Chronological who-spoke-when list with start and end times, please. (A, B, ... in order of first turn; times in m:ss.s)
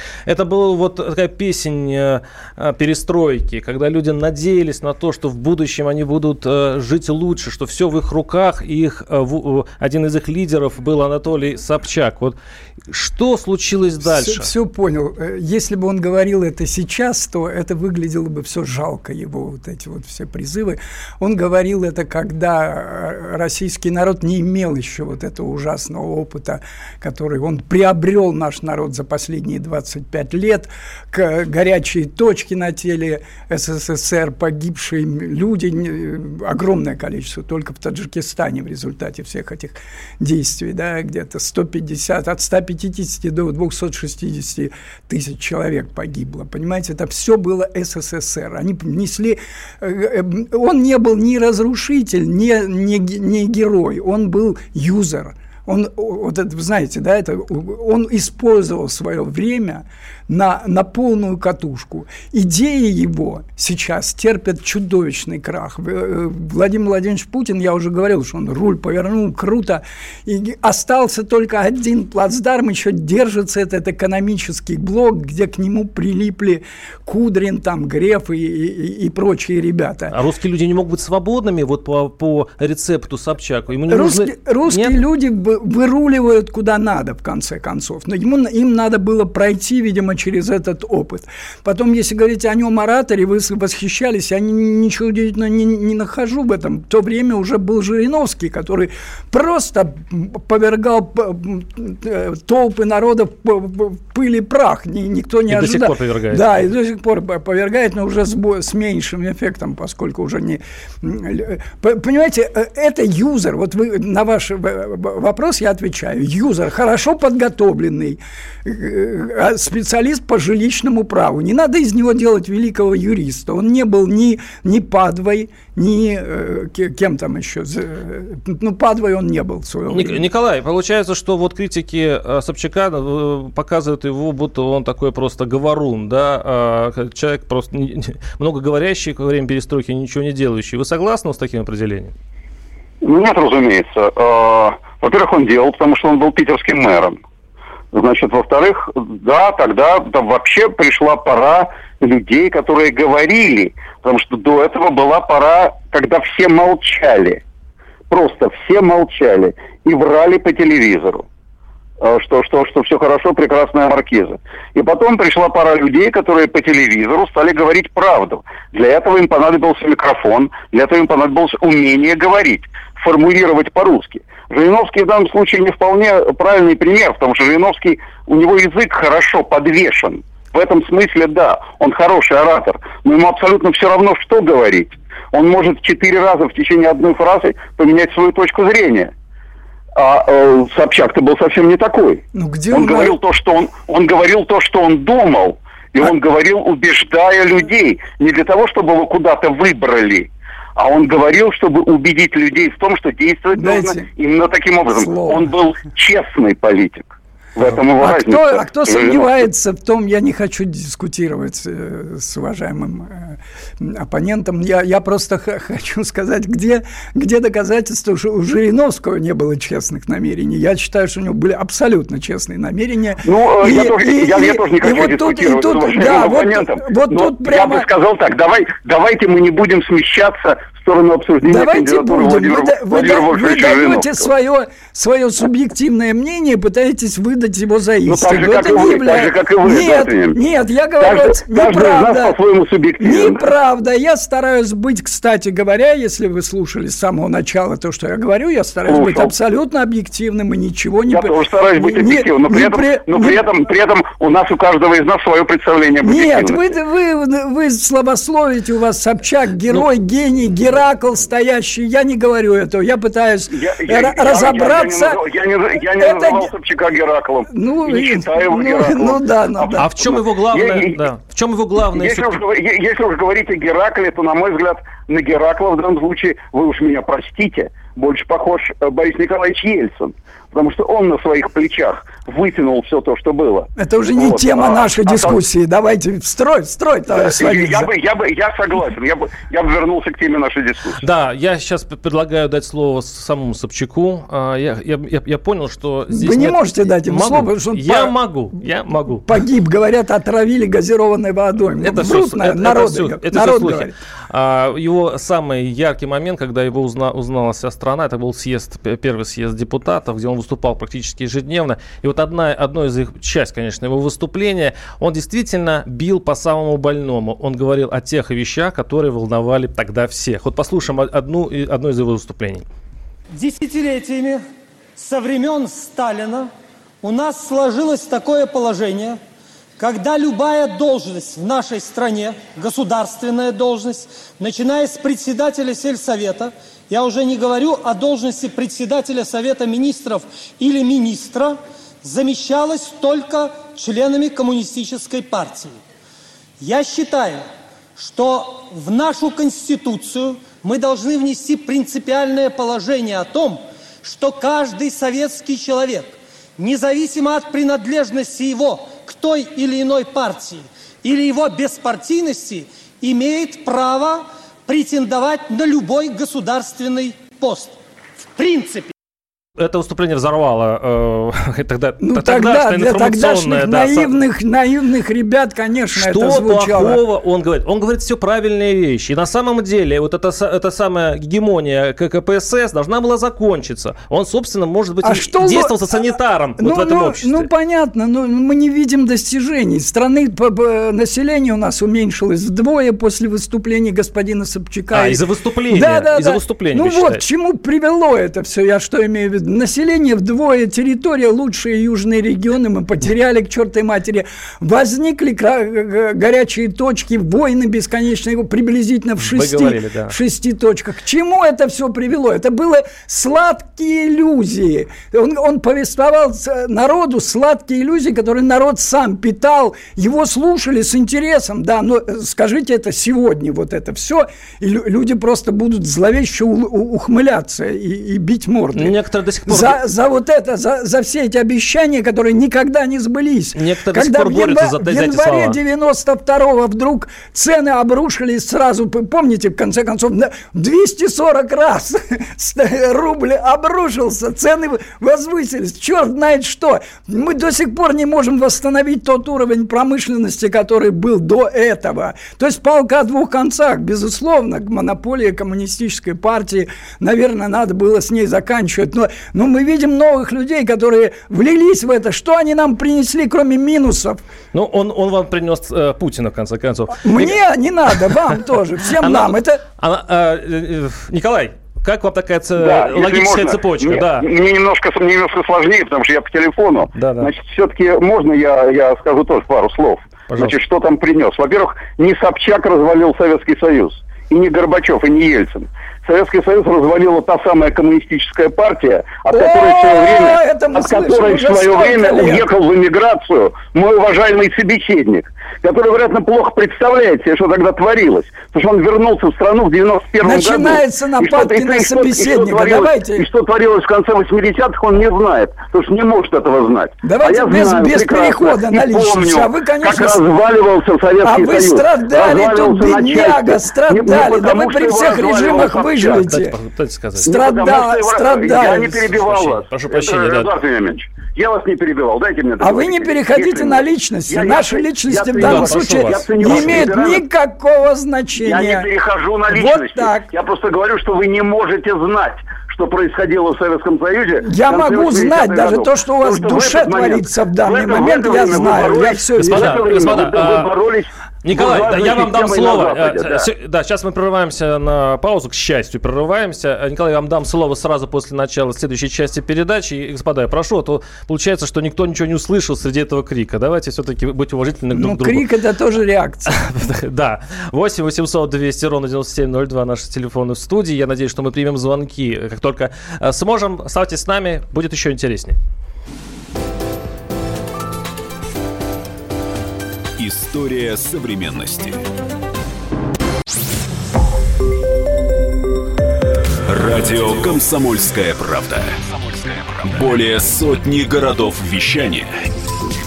0:00.3-0:12.4 A
0:12.9-0:14.5 A
0:14.0-1:20.1 B
1:20.1-1:25.0 A
1:23.9-2:10.2 B
1:45.5-1:46.5 A
2:09.9-2:22.1 A
2:23.0-2:27.2 C
2:27.9-2:37.4 C
2:38.1-2:41.2 C
2:42.0-3:09.1 C
3:10.0-3:29.5 C
3:12.3-3:13.2 B
3:23.5-3:24.1 B
3:24.9-3:25.5 B
3:28.0-3:47.9 B
3:43.2-3:54.2 C
3:51.4-4:02.4 B
3:58.1-4:00.4 C
4:01.0-4:03.4 C
4:03.0-4:13.4 B
4:08.9-4:09.3 C
4:11.1-4:16.6 C
4:16.0-4:25.2 B
4:23.5-4:31.0 C
4:25.9-4:26.5 B
4:27.5-4:30.0 B
4:29.8-4:32.3 A
4:31.8-4:45.4 C
4:43.8-4:47.9 B
4:47.1-4:51.0 C
4:51.0-4:59.3 A
4:56.1-4:58.1 B
4:59.2-5:04.0 B
5:01.8-5:22.6 A
5:23.3-5:24.4 D
5:25.0-5:26.5 D
5:27.0-5:29.2 D
5:29.8-5:45.8 D
5:46.6-6:07.8 D
6:08.4-6:08.9 D
6:09.6-6:14.1 A
6:12.0-6:17.0 B
6:15.9-6:27.5 A
6:25.0-7:09.0 B
6:34.9-6:37.2 A
6:49.2-6:50.2 A
7:08.8-7:09.8 A
7:09.5-7:44.2 B
7:13.5-7:15.6 A
7:44.5-7:47.4 A
7:47.0-7:49.6 B
7:49.0-7:54.3 A
7:52.6-8:36.2 C
7:57.0-7:57.3 A
8:00.3-8:00.5 A
8:09.3-8:12.5 B
8:20.2-8:23.3 B
8:27.0-8:30.2 B
8:31.2-8:36.6 B
8:36.3-8:37.3 A
8:37.2-8:47.2 C
8:37.2-8:39.0 B
8:38.6-8:40.5 A
8:42.6-8:48.9 B
8:45.4-8:46.9 A
8:48.4-9:03.5 C
8:49.5-8:50.3 B
8:54.4-9:00.1 B
8:59.4-9:00.7 A
9:01.4-9:15.5 A
9:14.9-9:16.5 B
9:16.5-9:25.6 A
9:30.2-9:32.0 E
9:36.7-9:42.3 E